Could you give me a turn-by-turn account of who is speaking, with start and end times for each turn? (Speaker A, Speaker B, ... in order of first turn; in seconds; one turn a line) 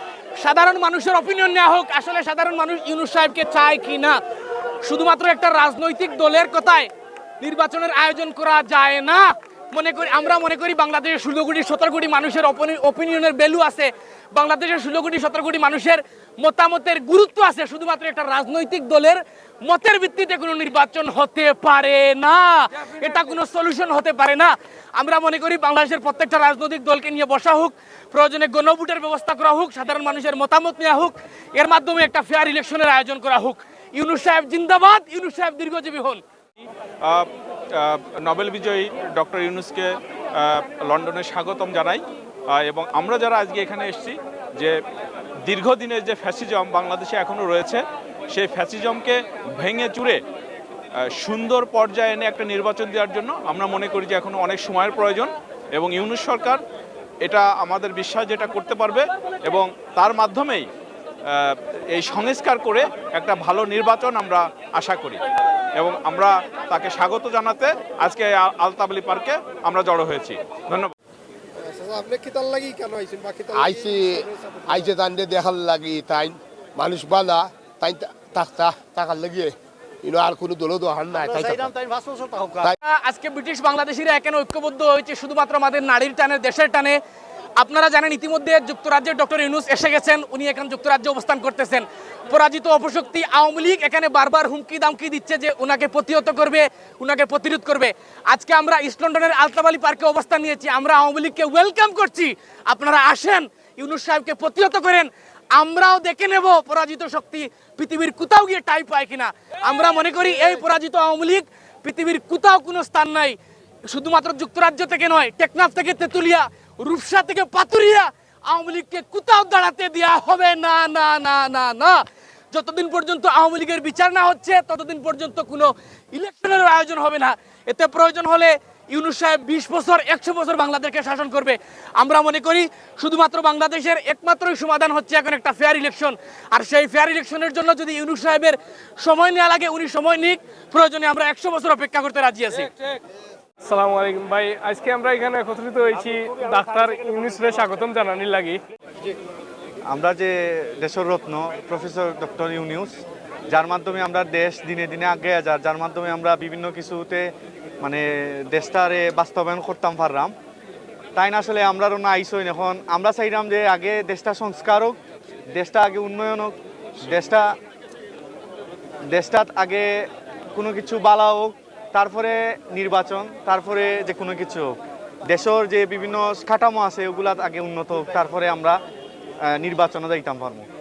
Speaker A: 0.4-4.2
Speaker A: 4.8-6.9
Speaker A: 7.4-36.2
Speaker B: 37.0-44.8
Speaker B: 45.5-50.2
Speaker B: 51.2-56.6
Speaker B: 57.2-60.7
Speaker B: 61.3-65.2
Speaker B: 65.8-70.9
Speaker C: 71.8-73.5
Speaker D: 73.5-81.7
Speaker C: 81.3-82.7
Speaker A: 82.8-87.0
Speaker A: 87.6-122.0
Speaker A: 122.5-142.7
Speaker E: 143.7-148.6
Speaker F: 149.9-152.9
Speaker F: 153.5-157.3
Speaker F: 157.8-160.3
Speaker F: 161.2-165.0
Speaker F: 165.5-167.5
Speaker F: 169.1-169.9
Speaker F: 170.6-174.7
Speaker F: 175.3-178.8
Speaker F: 179.5-180.7